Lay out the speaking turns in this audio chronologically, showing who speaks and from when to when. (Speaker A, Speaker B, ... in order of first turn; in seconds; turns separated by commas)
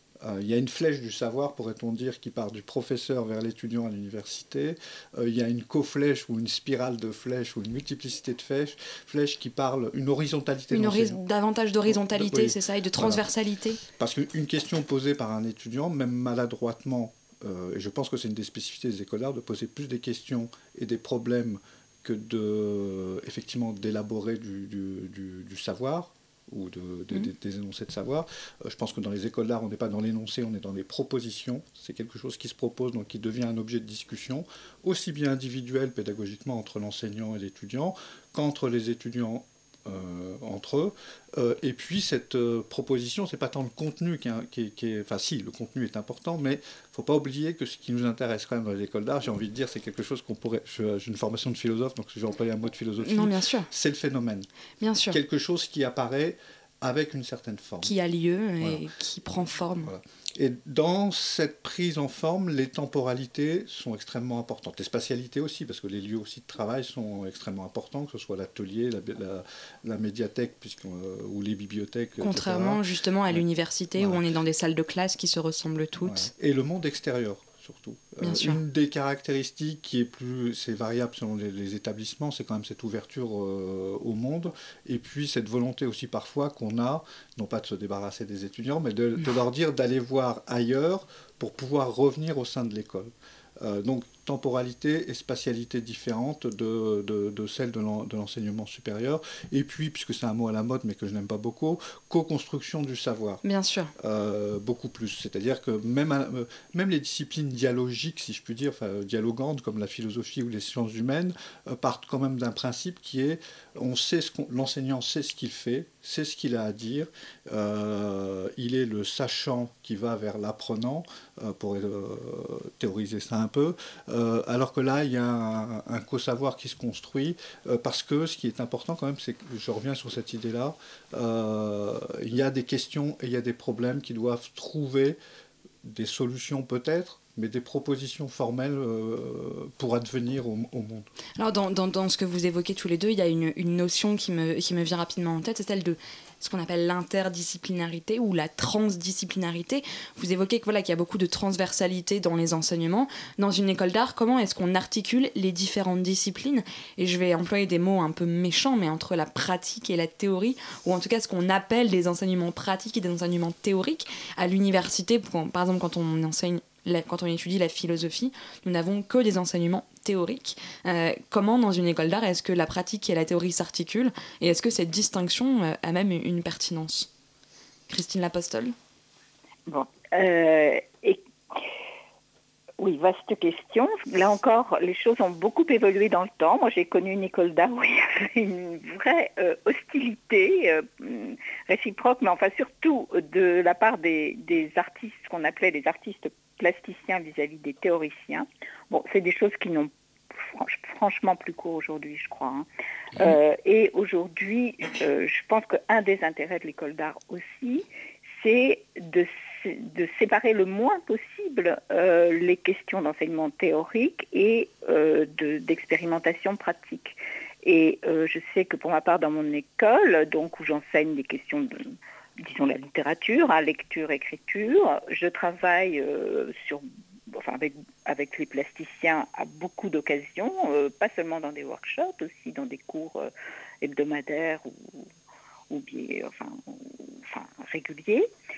Speaker A: 0.2-11.2, Speaker B: 10.7-13.8, Speaker A: 11.9-13.2, Speaker A: 13.8-54.5, Speaker B: 53.0-53.7, Speaker B: 54.8-55.2, Speaker A: 55.1-57.9, Speaker B: 57.8-59.9, Speaker A: 58.6-58.9, Speaker A: 59.8-73.4, Speaker B: 72.2-76.3, Speaker A: 74.0-74.2, Speaker A: 76.0-103.4, Speaker B: 78.2-78.6, Speaker B: 103.4-103.9, Speaker A: 104.0-135.2, Speaker A: 135.8-141.1, Speaker B: 141.4-177.1, Speaker B: 177.9-178.7, Speaker C: 179.7-181.6, Speaker C: 182.8-207.8, Speaker C: 208.4-221.7, Speaker C: 222.4-233.3, Speaker C: 233.8-235.1, Speaker C: 235.7-238.3